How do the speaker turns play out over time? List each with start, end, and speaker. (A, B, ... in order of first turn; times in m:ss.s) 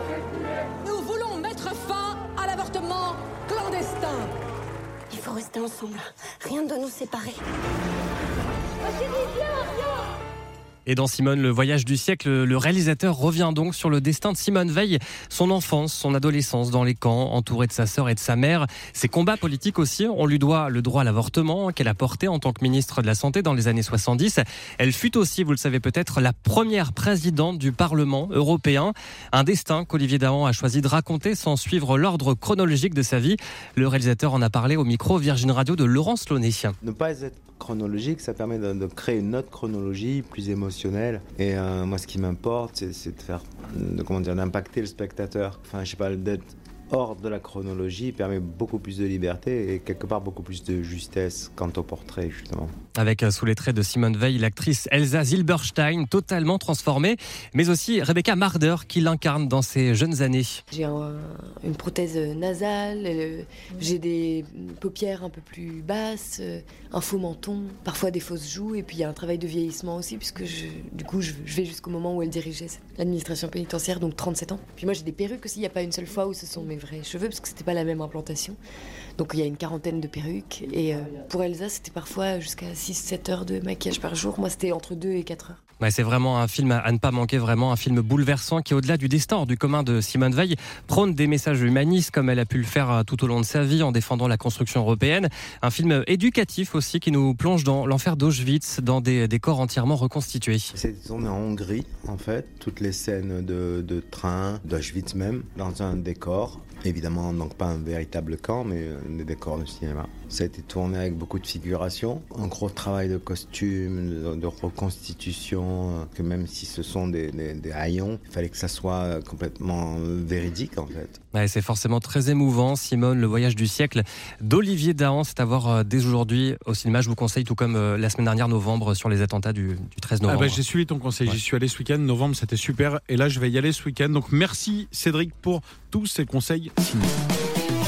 0:00.8-0:04.3 A
0:05.1-0:07.4 B
0:10.8-0:36.8 C
0:36.8-0:52.7 D
0:52.9-1:00.6 C
1:00.7-1:18.6 E
1:19.2-1:25.6 E
1:25.8-1:40.7 C
1:40.7-2:01.2 D
2:01.3-2:10.6 C
2:10.3-2:17.1 F